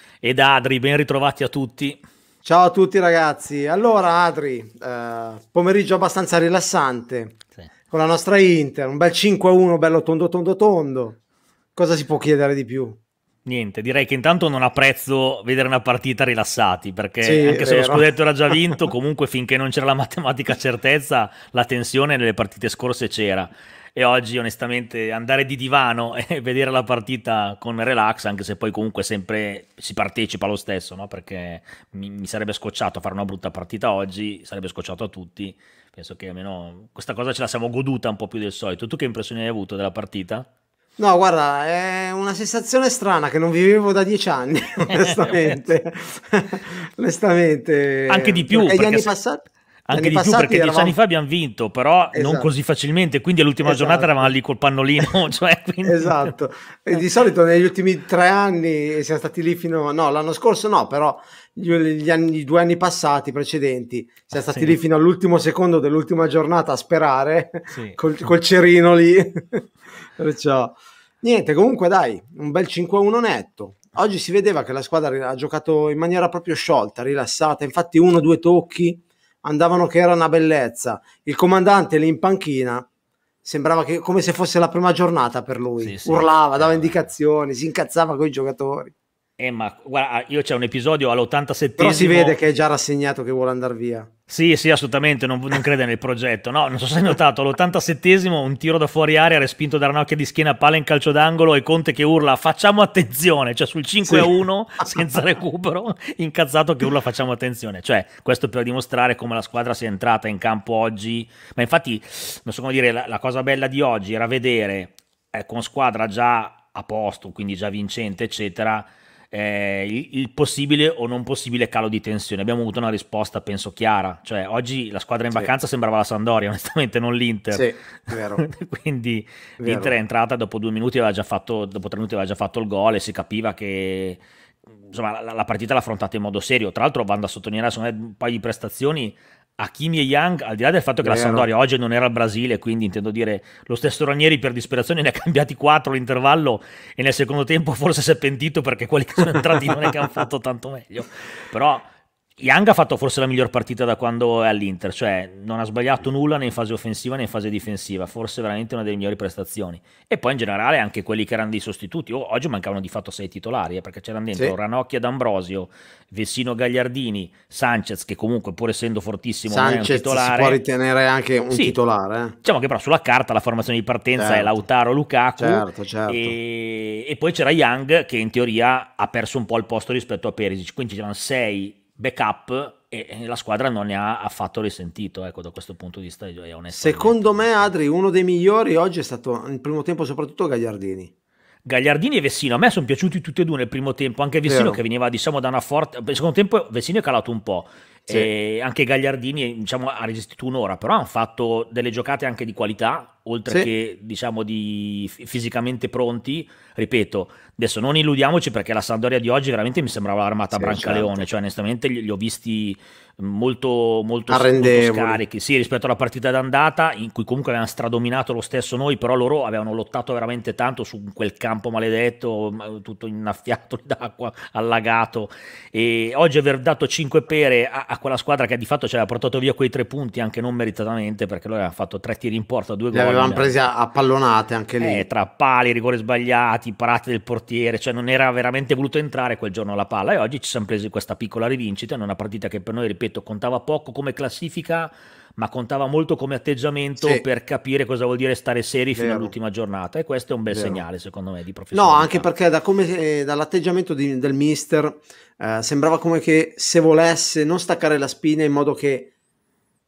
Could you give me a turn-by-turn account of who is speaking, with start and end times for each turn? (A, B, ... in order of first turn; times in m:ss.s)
0:00.2-0:02.0 A
0:02.4-0:07.4 B
0:07.9-0:11.2 B
0:11.8-0:13.0 B
0:13.4-0:40.5 A
0:17.2-0:18.7 B
0:41.0-0:51.0 B
0:44.9-0:45.6 A
0:48.1-0:49.1 A
0:49.9-0:56.3 A
0:52.1-0:52.5 B
0:53.6-0:54.3 B
0:55.8-1:22.9 B
1:04.3-1:04.8 A
1:07.7-1:08.0 A
1:23.4-1:28.9 B
1:25.8-1:27.1 A
1:29.4-1:32.4 A
1:31.8-1:34.1 B
1:34.3-2:14.2 A
2:07.5-2:08.4 B
2:09.6-2:09.9 B
2:14.8-2:50.6 A
2:21.0-2:21.5 B
2:49.5-2:52.4 B
2:52.4-3:07.7 A
2:54.2-2:54.6 B
2:55.4-2:56.4 B
3:06.7-3:11.1 B
3:11.6-3:53.6 A
3:14.4-3:14.8 B
3:30.5-3:31.2 B
3:34.3-3:35.2 B
3:52.9-3:55.0 B
3:54.8-4:12.3 A
4:08.9-4:09.3 B
4:10.5-4:10.8 B
4:11.7-4:19.1 B